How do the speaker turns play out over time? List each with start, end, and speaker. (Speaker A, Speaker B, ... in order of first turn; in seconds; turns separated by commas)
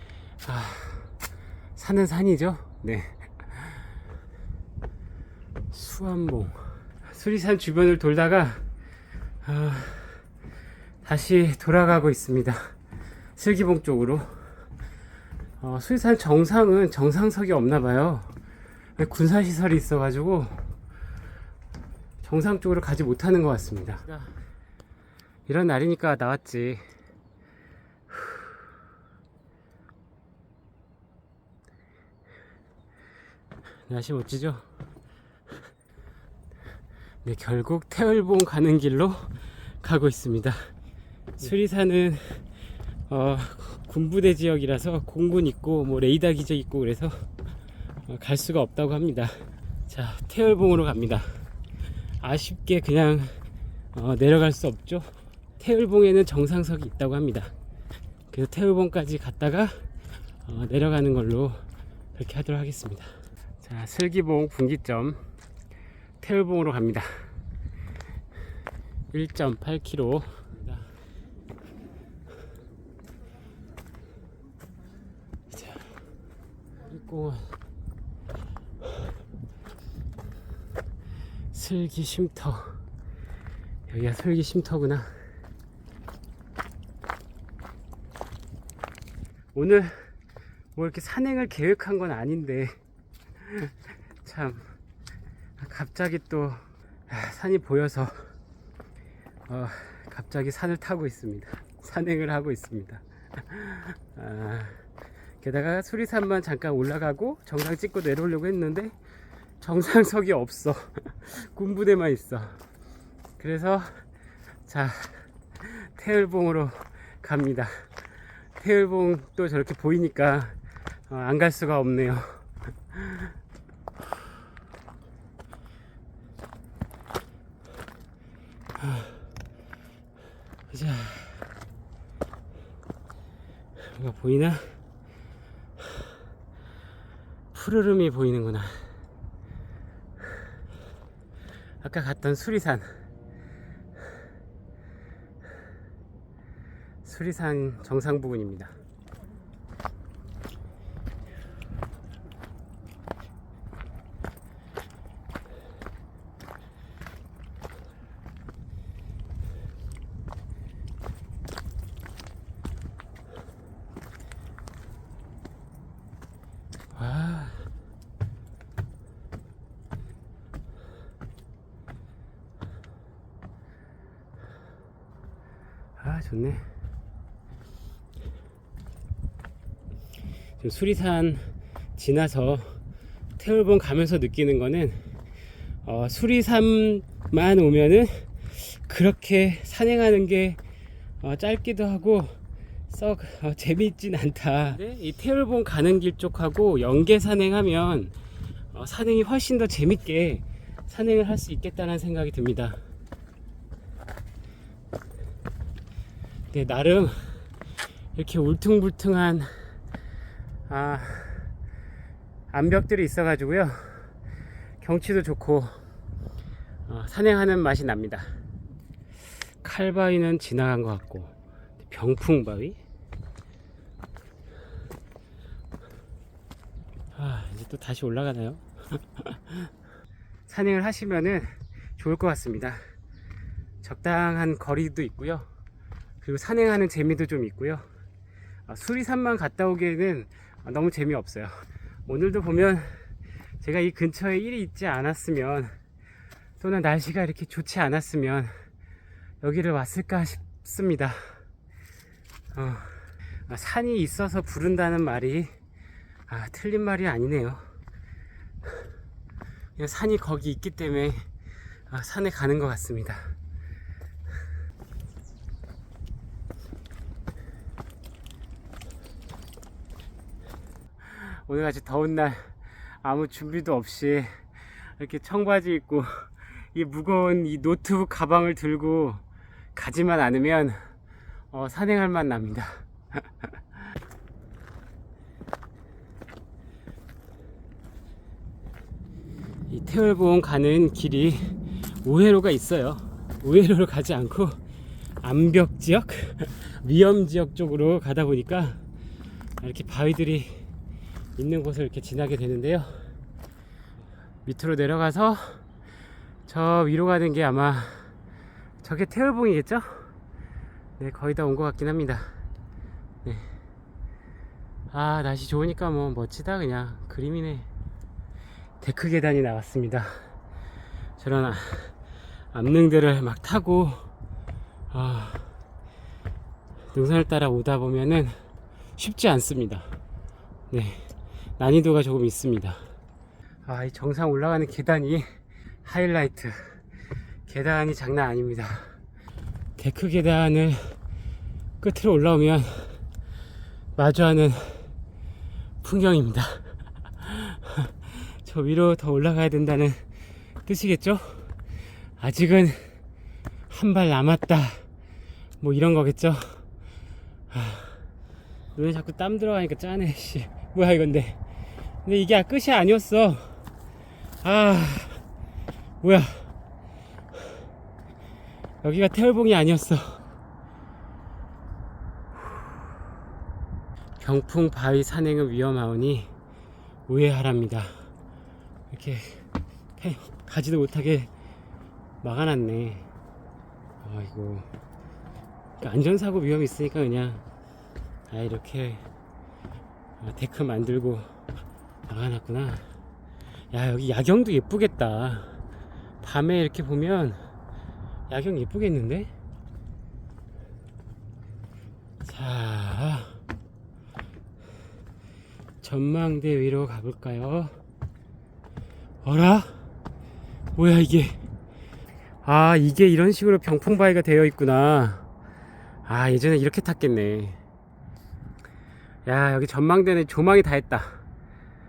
Speaker A: 0.4-1.1, Speaker A: 1.8-3.8, Speaker A: 5.7-8.6, Speaker A: 9.4-10.2, Speaker A: 11.0-12.7, Speaker A: 13.4-14.5, Speaker A: 15.6-18.4, Speaker A: 19.0-20.7, Speaker A: 22.2-24.3, Speaker A: 25.5-26.9, Speaker A: 28.1-28.4, Speaker A: 33.9-34.7, Speaker A: 37.2-40.7, Speaker A: 41.4-42.4, Speaker A: 43.1-47.2, Speaker A: 48.1-51.3, Speaker A: 52.2-53.4, Speaker A: 53.9-57.5, Speaker A: 58.3-59.9, Speaker A: 60.4-61.6, Speaker A: 62.1-65.2, Speaker A: 66.2-67.3, Speaker A: 69.1-70.9, Speaker A: 75.5-75.8, Speaker A: 76.9-77.5, Speaker A: 81.5-82.8, Speaker A: 83.9-85.2, Speaker A: 89.5-90.1, Speaker A: 90.8-92.8, Speaker A: 93.4-94.7, Speaker A: 95.6-98.3, Speaker A: 99.5-104.8, Speaker A: 105.4-108.9, Speaker A: 109.6-112.6, Speaker A: 113.4-114.0, Speaker A: 114.7-117.9, Speaker A: 118.6-120.6, Speaker A: 121.1-123.3, Speaker A: 128.8-129.2, Speaker A: 130.7-131.5, Speaker A: 133.8-134.8, Speaker A: 137.5-138.9, Speaker A: 141.8-142.9, Speaker A: 147.0-148.7, Speaker A: 166.9-167.6, Speaker A: 176.0-176.6, Speaker A: 180.6-182.8, Speaker A: 183.4-185.1, Speaker A: 185.8-190.6, Speaker A: 191.2-192.4, Speaker A: 192.9-198.1, Speaker A: 198.7-202.8, Speaker A: 206.5-207.4, Speaker A: 208.2-209.7, Speaker A: 210.7-211.5, Speaker A: 212.5-214.1, Speaker A: 214.8-215.8, Speaker A: 216.9-218.3, Speaker A: 219.6-222.8, Speaker A: 227.1-229.7, Speaker A: 230.5-232.9, Speaker A: 233.8-235.5, Speaker A: 236.2-237.8, Speaker A: 238.7-241.5, Speaker A: 242.1-243.1, Speaker A: 243.6-245.7, Speaker A: 246.6-248.6, Speaker A: 249.4-251.4, Speaker A: 252.5-255.5, Speaker A: 256.3-257.6, Speaker A: 259.8-261.3, Speaker A: 261.9-263.3, Speaker A: 271.0-279.2, Speaker A: 279.7-280.9, Speaker A: 281.5-283.5, Speaker A: 289.7-294.6, Speaker A: 295.2-298.8, Speaker A: 299.6-300.7, Speaker A: 301.4-303.1, Speaker A: 304.4-305.6, Speaker A: 306.4-308.1, Speaker A: 308.8-310.1, Speaker A: 311.0-312.3, Speaker A: 313.2-313.5, Speaker A: 314.9-317.7, Speaker A: 318.8-320.3, Speaker A: 321.2-321.9, Speaker A: 322.5-324.1, Speaker A: 324.9-325.5, Speaker A: 326.9-328.4, Speaker A: 329.0-329.9, Speaker A: 330.7-332.8, Speaker A: 333.7-336.8, Speaker A: 337.5-338.9, Speaker A: 339.8-341.0, Speaker A: 341.8-343.0, Speaker A: 343.9-344.9, Speaker A: 345.8-350.1, Speaker A: 350.6-351.5, Speaker A: 352.2-353.0, Speaker A: 353.7-354.8, Speaker A: 355.6-356.7, Speaker A: 357.5-358.1, Speaker A: 358.8-361.4, Speaker A: 362.1-363.6, Speaker A: 364.4-365.2, Speaker A: 366.0-366.5, Speaker A: 368.8-370.2, Speaker A: 374.2-376.3, Speaker A: 377.1-378.1, Speaker A: 378.9-379.4, Speaker A: 380.0-381.3, Speaker A: 382.2-383.1, Speaker A: 384.0-384.7, Speaker A: 385.8-387.4, Speaker A: 388.3-389.0, Speaker A: 390.2-391.3, Speaker A: 392.1-392.9, Speaker A: 393.7-395.6, Speaker A: 396.2-397.4, Speaker A: 398.3-399.3, Speaker A: 402.2-403.4, Speaker A: 405.8-407.8, Speaker A: 409.2-409.8, Speaker A: 410.8-411.4, Speaker A: 412.4-415.2, Speaker A: 416.1-417.6, Speaker A: 419.3-421.2